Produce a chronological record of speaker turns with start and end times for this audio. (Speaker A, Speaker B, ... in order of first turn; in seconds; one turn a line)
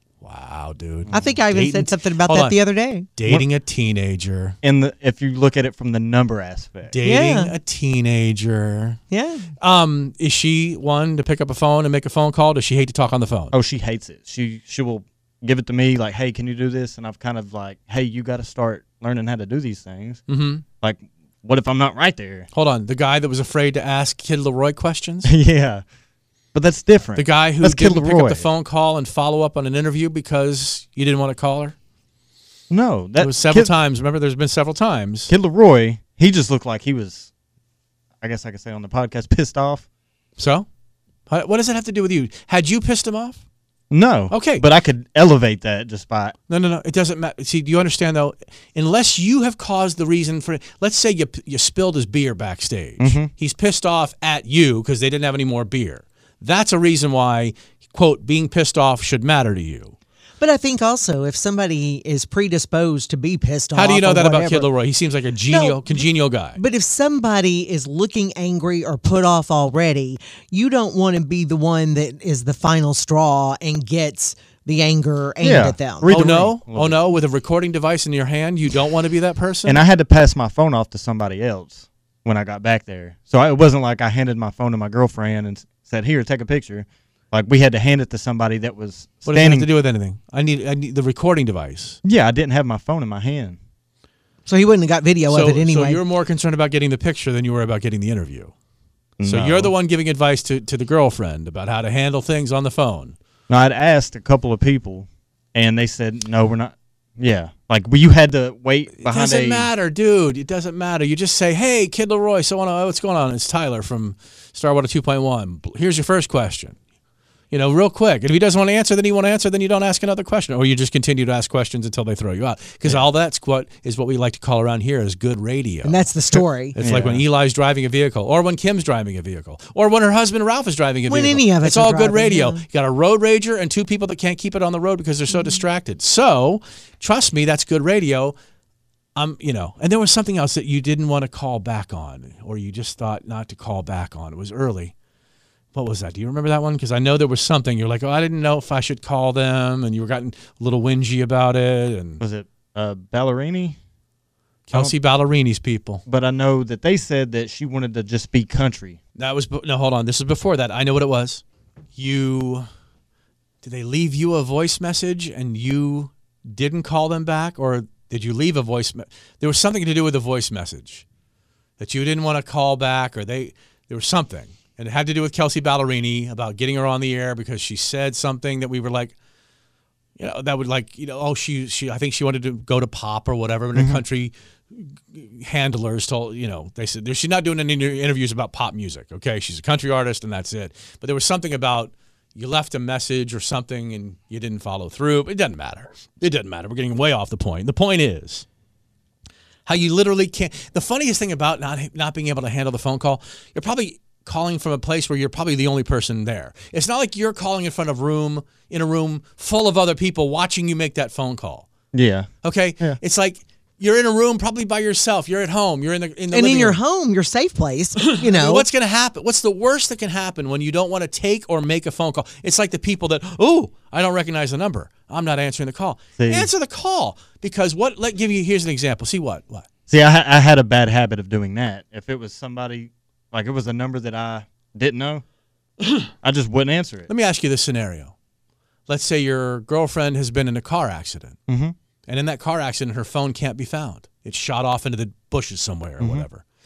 Speaker A: 0.2-2.6
Speaker B: 1.1-3.1
Speaker A: 3.1-4.6
Speaker C: 4.6-6.9
Speaker A: 6.9-9.0
Speaker B: 7.0-7.5
Speaker B: 9.1-9.5
Speaker A: 9.6-13.5
Speaker C: 13.5-20.2
Speaker A: 20.3-20.6
Speaker C: 20.8-22.5
Speaker A: 22.5-25.3
Speaker C: 25.2-25.8
Speaker C: 26.5-28.4
Speaker A: 27.1-31.7
Speaker C: 32.7-33.7
Speaker A: 33.2-35.3
Speaker C: 35.3-37.3
Speaker C: 38.2-39.8
Speaker A: 40.4-40.6
Speaker A: 41.3-43.4
Speaker C: 43.9-46.3
Speaker A: 44.3-44.6
Speaker A: 46.5-59.9
Speaker C: 53.0-53.3
Speaker B: 60.4-64.7
Speaker A: 63.7-66.6
Speaker B: 65.5-66.0
Speaker B: 66.5-76.1
Speaker C: 75.4-77.0
Speaker A: 76.1-79.8
Speaker C: 79.6-89.7
Speaker A: 89.2-92.0
Speaker C: 92.0-93.6
Speaker B: 94.5-96.0
Speaker A: 95.3-98.5
Speaker C: 99.2-99.7
Speaker A: 99.2-103.1
Speaker C: 103.5-109.7
Speaker A: 109.0-116.8
Speaker A: 117.5-126.0
Speaker B: 125.8-126.8
Speaker A: 126.7-138.3
Speaker C: 126.8-127.2
Speaker B: 131.1-132.6
Speaker B: 135.3-135.6
Speaker A: 139.2-144.9
Speaker A: 145.7-152.2
Speaker C: 152.2-153.8
Speaker A: 154.7-156.0
Speaker C: 156.1-159.0
Speaker A: 159.2-161.4
Speaker A: 162.0-162.7
Speaker A: 163.6-171.0
Speaker A: 171.8-179.1
Speaker A: 180.2-198.4
Speaker C: 183.7-184.0
Speaker A: 199.7-211.7
Speaker C: 211.9-212.3
Speaker A: 212.4-216.8
Speaker B: 216.3-218.7
Speaker A: 218.1-229.7
Speaker C: 226.2-226.5
Speaker C: 229.9-235.2
Speaker C: 236.2-237.1
Speaker A: 237.1-238.1
Speaker A: 238.9-241.4
Speaker C: 241.5-241.7
Speaker A: 242.1-246.4
Speaker C: 246.0-246.2